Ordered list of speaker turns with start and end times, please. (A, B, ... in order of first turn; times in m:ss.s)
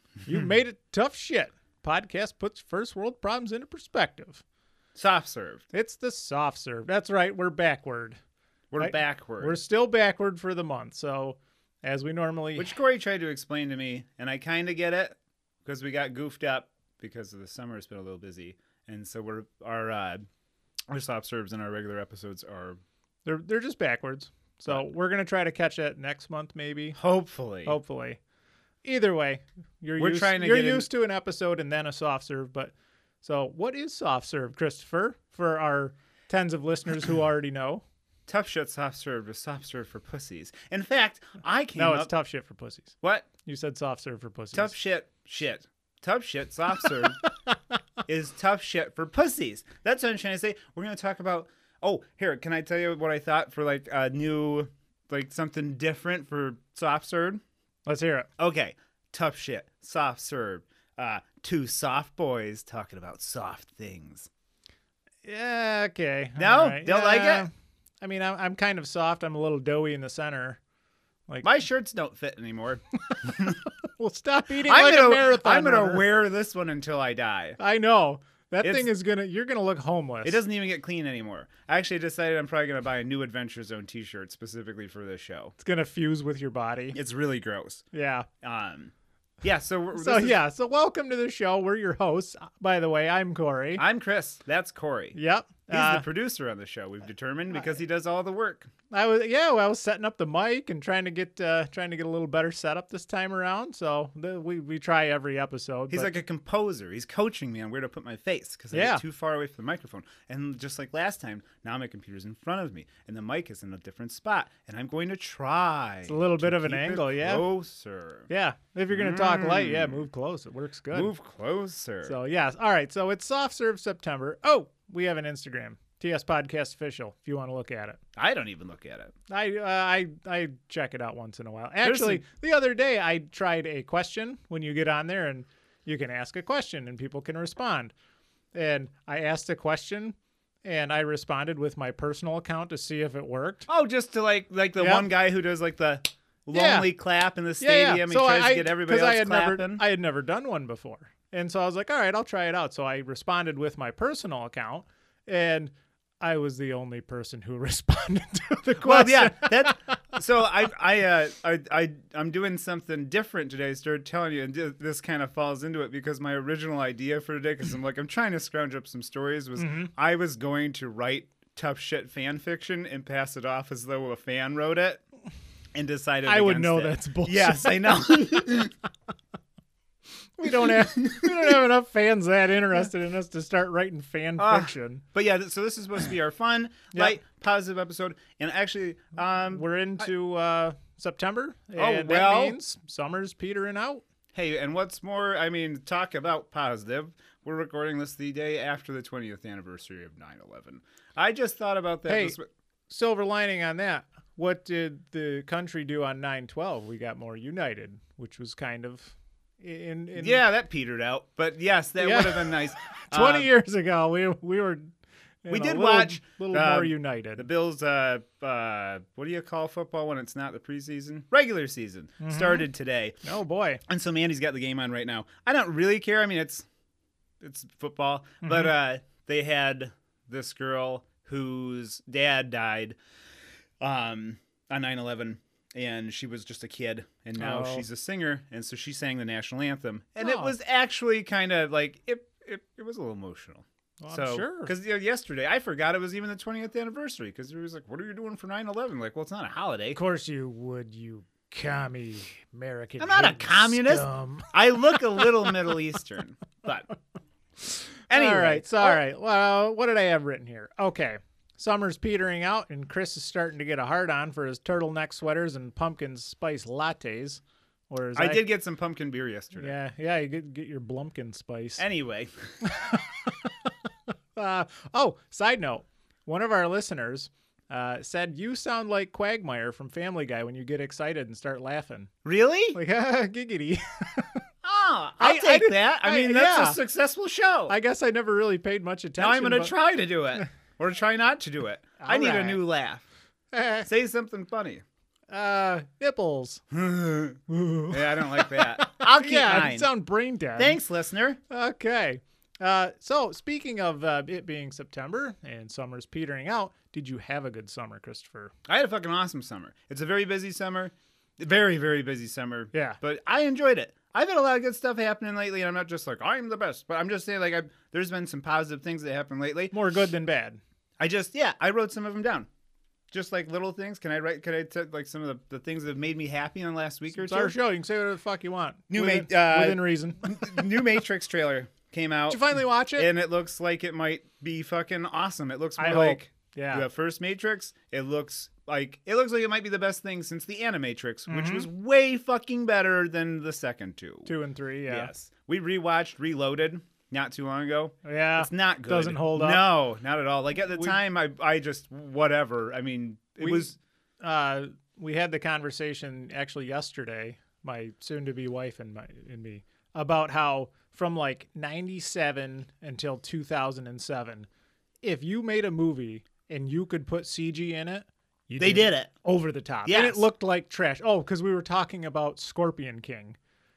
0:00.2-0:04.4 A
0:05.0-0:05.6 B
0:05.7-0:08.2 A
0:08.7-0:09.6 B
0:08.8-0:12.7 A
0:12.6-0:20.2 B
0:20.9-0:22.8 B
0:23.2-0:27.0 A
0:27.0-0:27.8 B
0:27.6-0:28.2 A
0:28.8-0:37.8 A
0:30.0-0:30.9 B
0:38.3-0:42.1 B
0:41.8-0:42.9 A
0:43.0-0:43.3 B
0:43.4-0:44.7 A
0:44.5-0:47.2 B
0:48.0-0:57.4 B
0:57.8-0:58.3 A
0:58.4-1:04.3 B
1:05.2-1:10.6 A
1:06.4-1:07.5 B
1:11.4-1:13.6 B
1:13.1-1:16.0 A
1:14.6-1:17.6 B
1:17.6-1:20.4 A
1:18.6-1:18.9 B
1:20.2-1:25.5 B
1:25.6-1:27.0 A
1:26.9-1:27.8 B
1:27.9-1:28.3 A
1:28.4-1:30.4 B
1:30.0-1:33.8 A
1:33.8-1:35.2 B
1:35.1-1:36.0 A
1:35.7-1:38.7 B
1:38.9-1:46.2 A
1:45.9-1:58.3 B
1:48.7-1:49.0 A
1:56.1-1:57.5 A
1:58.3-2:01.1 A
1:58.9-2:00.0 B
2:00.9-2:02.2 B
2:02.0-2:08.0 A
2:08.2-2:09.1 B
2:09.3-2:17.9 A
2:11.8-2:12.2 B
2:18.5-2:23.7 A
2:23.7-2:29.8 B
2:24.8-2:25.1 A
2:26.5-2:26.9 A
2:27.6-2:40.0 A
2:38.8-2:55.0 B
2:49.6-2:49.9 A
2:55.7-2:58.7 B
2:56.2-2:58.7 A
3:00.4-3:05.0 A
3:00.6-3:01.3 B
3:04.4-3:10.0 B
3:09.5-3:14.0 A
3:11.8-3:12.6 B
3:14.3-3:22.4 B
3:22.1-3:22.4 A
3:22.9-3:30.4 A
3:30.2-3:33.5 B
3:32.0-3:34.9 A
3:35.4-3:37.4 A
3:35.5-3:43.2 B
3:42.2-3:42.7 A
3:43.2-3:43.8 A
3:43.9-3:46.6 B
3:47.4-3:53.0 B
3:48.4-3:48.7 A
3:53.8-4:10.0 B
3:57.4-3:57.9 A
4:00.2-4:00.5 A
4:04.0-4:04.7 A
4:09.9-4:15.5 A
4:13.0-4:16.9 B
4:18.1-4:19.0 B
4:18.1-4:28.4 A
4:28.1-4:29.7 B
4:29.6-4:31.8 A
4:31.8-4:32.7 B
4:32.6-4:33.7 A
4:34.4-4:42.1 A
4:42.2-4:42.8 B
4:42.7-4:44.4 A
4:44.6-4:47.7 B
4:45.2-4:46.8 A
4:47.7-4:49.7 A
4:49.2-4:53.0 B
4:52.0-4:52.6 A
4:53.5-4:53.9 A
4:53.8-4:54.8 B
4:55.3-4:56.6 A
4:56.7-4:59.9 B
4:57.5-5:00.8 A
5:00.6-5:01.4 B
5:01.5-5:08.5 A
5:08.7-5:19.7 B
5:12.7-5:13.0 A
5:19.7-5:20.6 A
5:21.0-5:22.5 B
5:23.1-5:27.5 B
5:27.1-5:30.3 A
5:28.9-5:44.3 B
5:32.3-5:33.1 A
5:35.8-5:36.8 A
5:41.3-5:41.7 A
5:44.2-5:45.1 A
5:44.9-5:53.8 B
5:48.0-5:49.6 A
5:50.7-5:51.0 A
5:53.4-5:53.7 A
5:54.2-6:04.5 A
6:05.0-6:13.4 A
6:08.6-6:09.1 B
6:09.8-6:10.2 B